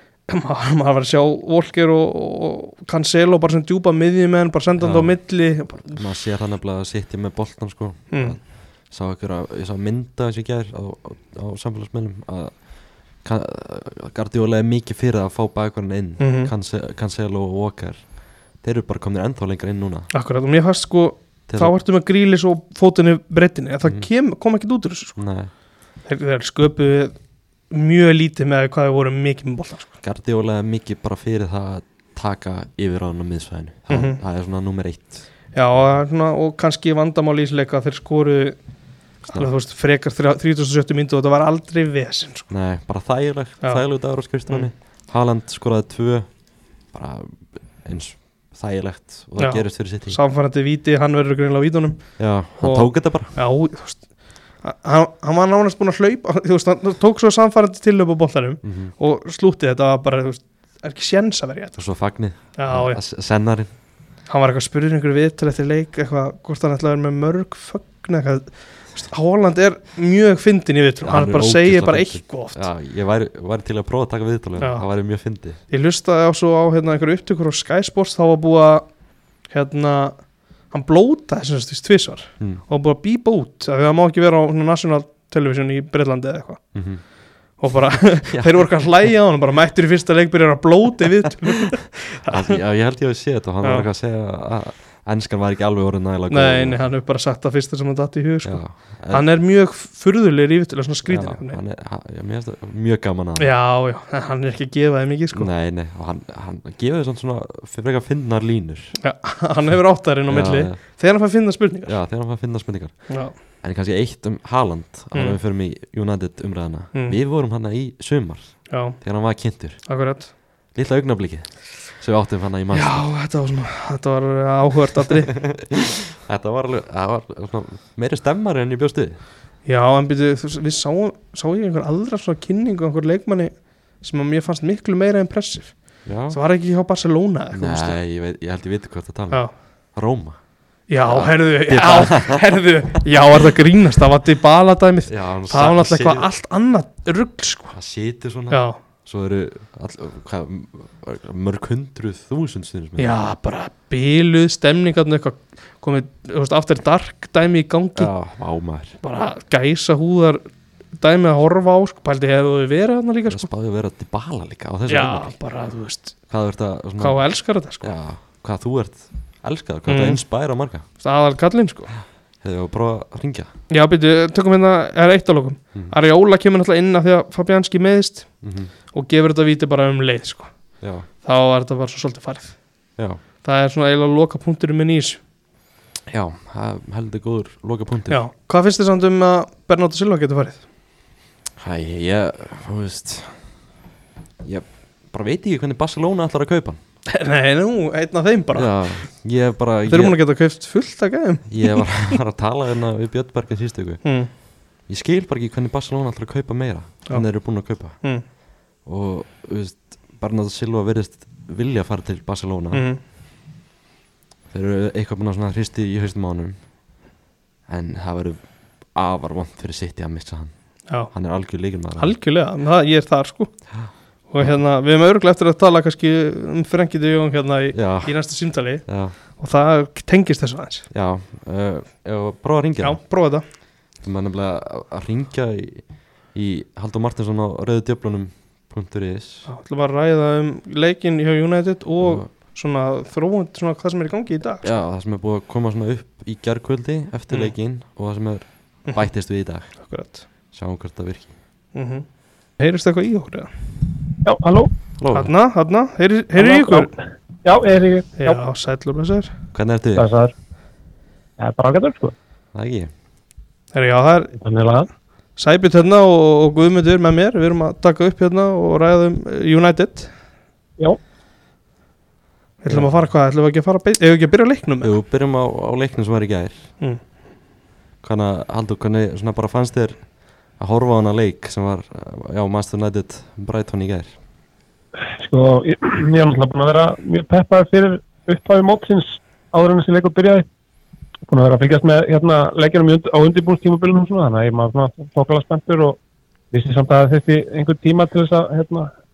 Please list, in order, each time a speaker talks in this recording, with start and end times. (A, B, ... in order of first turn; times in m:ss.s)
0:00.3-0:06.0 A
0:04.8-0:20.1 B
0:08.1-0:08.4 A
0:16.2-0:16.5 A
0:20.1-0:25.2 A
0:21.5-0:21.8 B
0:25.2-0:25.5 B
0:26.0-0:27.2 A
0:27.7-0:29.9 A
0:30.0-0:35.2 B
0:33.9-0:34.2 A
0:35.5-0:38.6 A
0:39.2-0:42.5 A
0:42.5-0:46.3 B
0:46.9-0:50.2 B
0:49.4-0:54.1 A
0:52.2-0:53.3 B
0:54.6-1:01.8 A
0:58.6-0:58.9 B
1:01.8-1:03.7 B
1:02.6-1:03.0 A
1:04.3-1:12.7 A
1:11.0-1:15.6 B
1:14.6-1:14.8 A
1:15.7-1:18.9 A
1:19.5-1:26.6 A
1:26.7-1:27.0 B
1:27.6-1:32.6 A
1:28.3-1:28.6 B
1:32.3-1:36.8 B
1:33.6-1:33.9 A
1:36.3-1:41.6 A
1:38.4-1:39.3 B
1:41.0-1:43.5 B
1:43.4-1:45.5 A
1:45.3-1:49.0 B
1:49.0-1:52.0 A
1:50.3-1:50.8 B
1:51.9-1:59.8 B
1:53.1-1:53.3 A
1:55.1-1:55.4 A
1:58.7-1:59.0 A
1:59.9-2:00.3 A
2:00.7-2:03.1 B
2:02.7-2:05.4 A
2:05.4-2:09.2 B
2:09.6-2:18.0 A
2:16.1-2:16.4 B
2:17.5-2:20.4 B
2:20.9-2:27.8 A
2:21.0-2:22.5 B
2:25.1-2:26.3 B
2:27.7-2:33.1 B
2:28.5-2:28.8 A
2:33.0-2:38.1 A
2:38.0-2:39.0 B
2:39.0-2:40.4 A
2:41.0-2:43.5 A
2:43.3-2:45.4 B
2:44.9-2:46.2 A
2:46.3-2:47.2 B
2:47.0-2:47.9 A
2:47.8-2:50.9 B
2:49.9-2:50.2 A
2:51.0-2:51.9 A
2:52.4-2:53.5 B
2:53.7-2:58.3 A
2:58.4-2:58.7 B
2:58.9-3:00.5 A
3:00.8-3:01.1 B
3:01.2-3:02.6 A
3:03.4-3:05.2 A
3:06.1-3:08.2 B
3:08.1-3:10.6 A
3:11.6-3:13.5 B
3:14.4-3:16.8 B
3:17.1-3:19.1 A
3:18.5-3:20.2 B
3:19.9-3:22.2 A
3:21.5-3:24.0 B
3:24.0-3:24.3 A
3:24.9-3:28.0 B
3:28.0-3:28.2 A
3:28.8-3:32.9 B
3:32.7-3:33.0 A
3:34.5-3:36.6 B
3:37.7-3:40.5 B
3:41.1-3:42.2 B
3:42.0-3:43.6 A
3:43.7-3:44.6 B
3:44.3-3:50.9 A
3:47.7-3:48.2 B
3:48.8-3:49.2 B
3:50.9-3:53.0 B
3:52.8-3:53.4 A
3:54.0-3:59.5 B
3:59.5-4:04.7 A
4:02.0-4:02.3 B
4:04.6-4:09.7 B
4:09.8-4:10.3 A
4:10.5-4:11.3 B
4:11.7-4:12.1 A
4:12.6-4:13.5 A
4:14.2-4:14.7 C
4:15.0-4:15.3 B
4:15.1-4:16.9 A
4:16.4-4:18.4 C
4:18.2-4:19.3 A
4:19.5-4:20.1 B
4:20.0-4:20.3 C
4:21.4-4:22.1 C
4:22.5-4:22.9 B
4:23.7-4:24.4 A
4:24.4-4:24.9 C
4:25.4-4:30.1 A
4:32.6-4:35.0 A
4:32.7-4:33.0 B
4:34.8-4:36.7 B
4:38.0-4:40.0 B
4:40.6-4:44.2 B
4:45.1-4:50.4 C
4:51.3-4:56.0 C
4:56.5-4:58.9 C